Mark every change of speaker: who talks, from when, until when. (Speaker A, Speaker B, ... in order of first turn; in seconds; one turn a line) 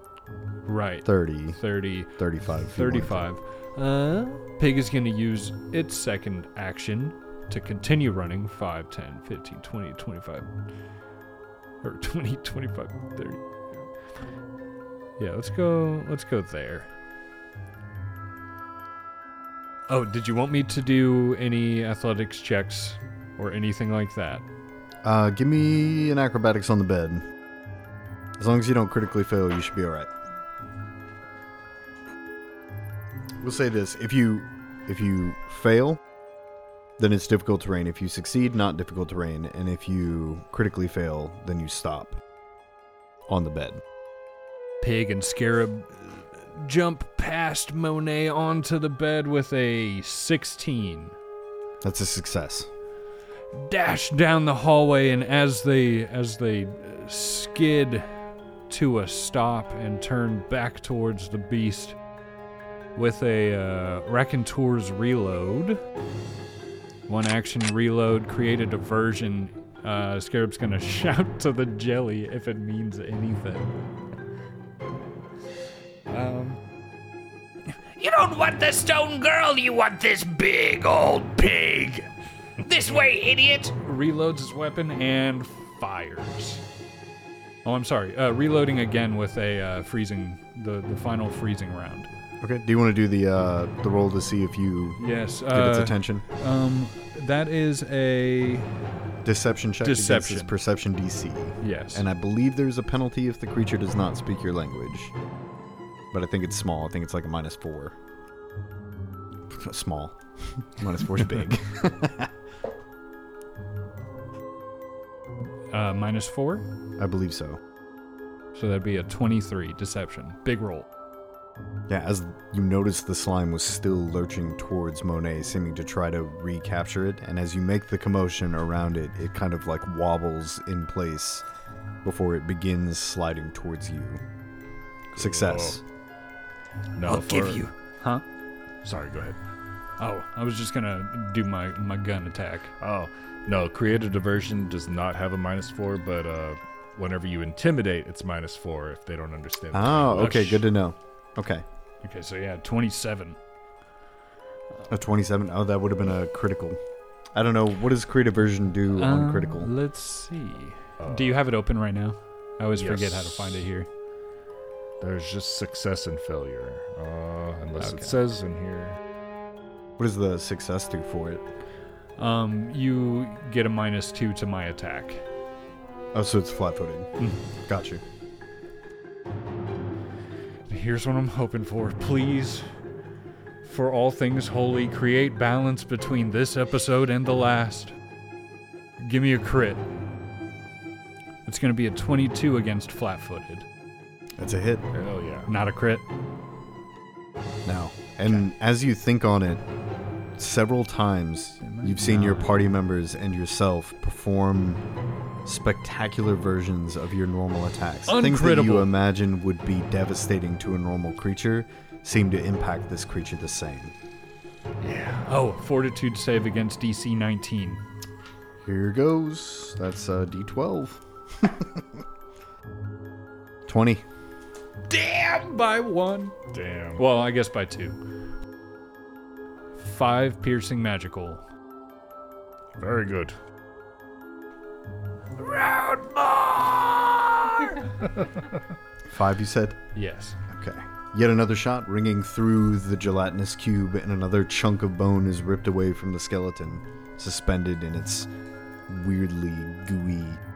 Speaker A: 0.7-10.5
Speaker B: 1.1-1.6
Speaker B: 2.2-3.2
Speaker A: 11.8-13.8
Speaker A: 15.2-16.9
Speaker A: 19.9-24.4
Speaker B: 25.0-27.3
Speaker B: 28.4-30.1
Speaker B: 33.4-36.0
Speaker B: 37.0-42.2
Speaker B: 43.3-43.8
Speaker A: 44.8-51.2
Speaker B: 51.8-52.7
Speaker A: 53.5-58.1
Speaker A: 58.7-62.0
Speaker A: 63.0-65.8
Speaker A: 67.1-73.7
Speaker A: 76.1-76.6
Speaker C: 78.0-82.1
Speaker C: 82.6-83.7
Speaker A: 83.8-86.6
Speaker A: 87.7-92.1
Speaker B: 92.4-96.2
Speaker A: 95.0-98.7
Speaker B: 99.2-105.1
Speaker A: 99.8-100.5
Speaker A: 101.6-102.1
Speaker B: 106.1-108.0
Speaker B: 109.5-112.3
Speaker A: 115.7-116.7
Speaker B: 117.0-117.6
Speaker A: 118.5-120.9
Speaker B: 121.9-131.4
Speaker B: 132.0-134.2
Speaker D: 135.1-135.8
Speaker B: 135.2-135.8
Speaker D: 137.0-137.6
Speaker A: 137.1-138.2
Speaker C: 137.3-137.7
Speaker D: 138.8-139.4
Speaker A: 140.0-142.7
Speaker D: 142.8-150.4
Speaker B: 149.7-151.7
Speaker A: 150.1-150.7
Speaker A: 152.0-153.4
Speaker B: 154.9-156.8
Speaker B: 157.3-159.7
Speaker A: 158.9-163.9
Speaker D: 161.0-161.4
Speaker D: 162.8-163.6
Speaker D: 165.0-169.0
Speaker A: 167.8-168.2
Speaker B: 170.0-171.4
Speaker A: 172.2-175.2
Speaker B: 176.1-177.1
Speaker A: 177.2-177.4
Speaker B: 177.7-178.0
Speaker A: 180.7-182.7
Speaker A: 183.6-187.9
Speaker A: 189.0-189.8
Speaker A: 191.5-193.7
Speaker B: 194.4-194.9
Speaker D: 194.9-195.5
Speaker A: 195.5-196.1
Speaker B: 197.7-199.6
Speaker B: 200.4-204.8
Speaker A: 201.6-202.6
Speaker B: 205.4-213.9
Speaker A: 208.1-208.9
Speaker D: 214.8-215.2
Speaker A: 215.2-217.8
Speaker B: 218.6-222.0
Speaker B: 223.7-224.0
Speaker A: 224.9-226.3
Speaker D: 226.5-227.0
Speaker A: 227.0-228.0
Speaker A: 229.8-231.4
Speaker D: 232.8-233.3
Speaker A: 235.4-237.7
Speaker B: 239.1-239.8
Speaker A: 239.9-240.4
Speaker B: 240.5-248.3
Speaker B: 248.9-250.4